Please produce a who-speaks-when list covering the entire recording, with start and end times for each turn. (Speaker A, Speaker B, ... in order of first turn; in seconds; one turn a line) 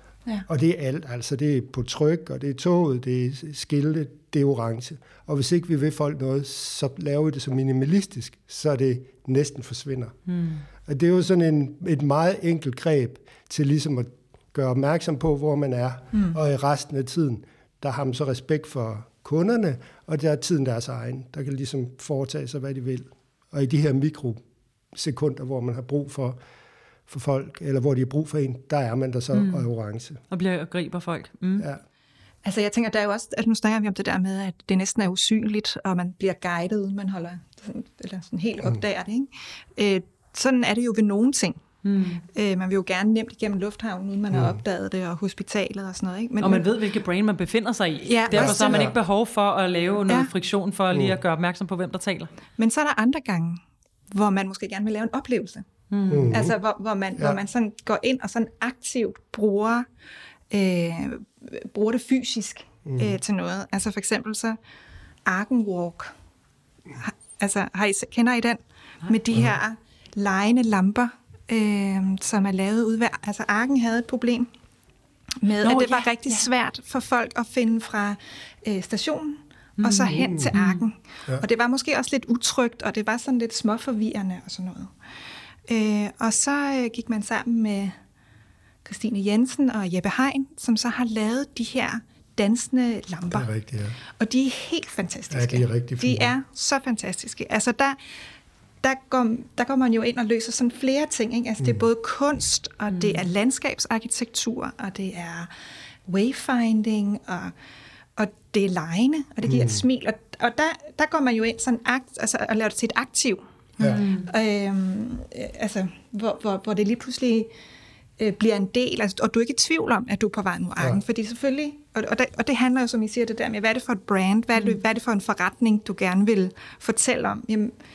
Speaker A: 0.5-10.1
Speaker B: 10.3-10.6
Speaker A: 10.8-24.4
Speaker A: 24.9-26.4
Speaker A: 27.1-30.2
Speaker B: 29.3-29.6
Speaker B: 30.3-31.7
Speaker C: 32.4-41.6
Speaker B: 41.8-42.2
Speaker C: 42.3-46.7
Speaker A: 44.3-44.6
Speaker B: 46.4-52.3
Speaker C: 48.0-48.9
Speaker A: 48.3-48.9
Speaker C: 52.6-55.6
Speaker B: 55.9-56.4
Speaker A: 56.1-56.5
Speaker C: 56.3-59.9
Speaker C: 60.5-64.6
Speaker A: 62.9-63.2
Speaker C: 65.2-66.1
Speaker C: 67.0-74.5
Speaker C: 75.4-84.9
Speaker B: 75.6-76.4
Speaker B: 79.8-80.8
Speaker A: 80.2-80.5
Speaker C: 85.7-88.0
Speaker C: 88.8-93.5
Speaker A: 93.3-94.0
Speaker C: 94.2-98.0
Speaker A: 95.3-96.3
Speaker C: 98.8-105.5
Speaker B: 102.9-103.2
Speaker C: 106.1-107.5
Speaker C: 108.2-117.5
Speaker A: 109.4-109.8
Speaker B: 113.8-114.3
Speaker C: 118.2-127.7